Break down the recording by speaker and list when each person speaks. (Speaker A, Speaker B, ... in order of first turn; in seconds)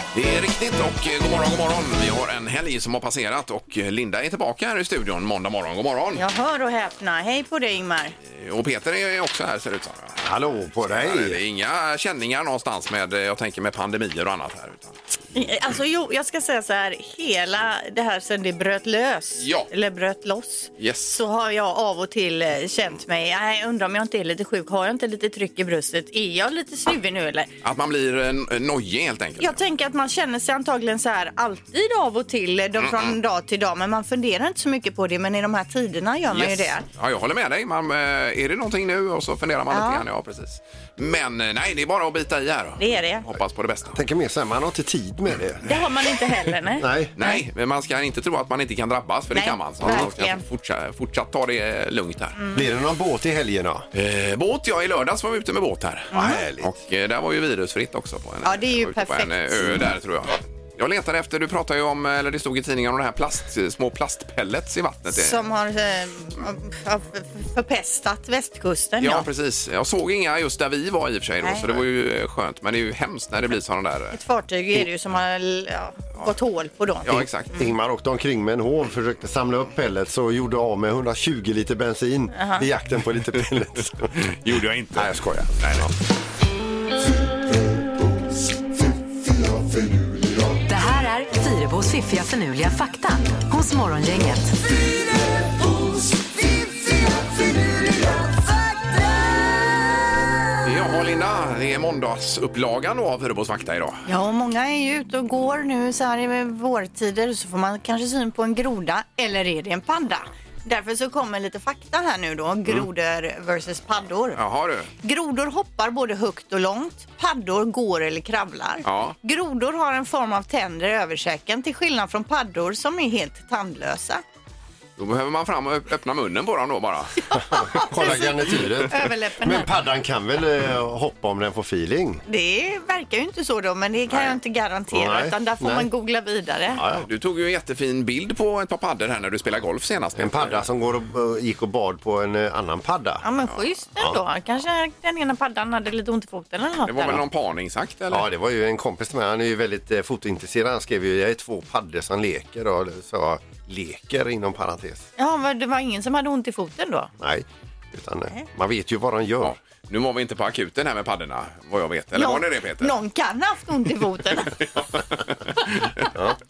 Speaker A: 0.1-6.2, 8.3-10.2, 10.8-15.0, 19.4-19.7, 20.8-21.2, 27.6-29.6, 32.8-33.1, 36.3-44.0, 47.1-52.3, 53.9-65.4, 69.0-74.2, 77.0-77.5, 84.2-85.9, 100.6-104.0, 114.3-114.9, 118.8-119.2, 125.0-127.8, 137.0-140.6, 146.8-148.2, 159.4-162.9, 164.5-166.1
Speaker B: 6.1-8.1, 15.3-27.5, 29.4-36.8, 39.7-40.0, 42.8-43.2, 45.6-47.4, 49.3-50.4, 56.1-56.4, 58.4-59.8, 65.1-69.2, 71.4-71.8, 74.1-77.7, 82.3-82.7, 104.0-114.4, 115.0-124.2, 127.3-129.7, 132.3-136.8, 143.2-147.2, 155.2-157.1, 162.1-164.5
Speaker C: 10.2-11.4, 43.9-45.7, 46.8-47.1, 52.5-53.9, 56.1-56.7, 77.5-84.1, 84.9-85.9, 127.4-132.2, 134.9-135.9, 136.8-137.1, 140.2-143.2, 148.1-155.1, 157.2-159.5, 166.1-166.4
Speaker D: 90.6-94.5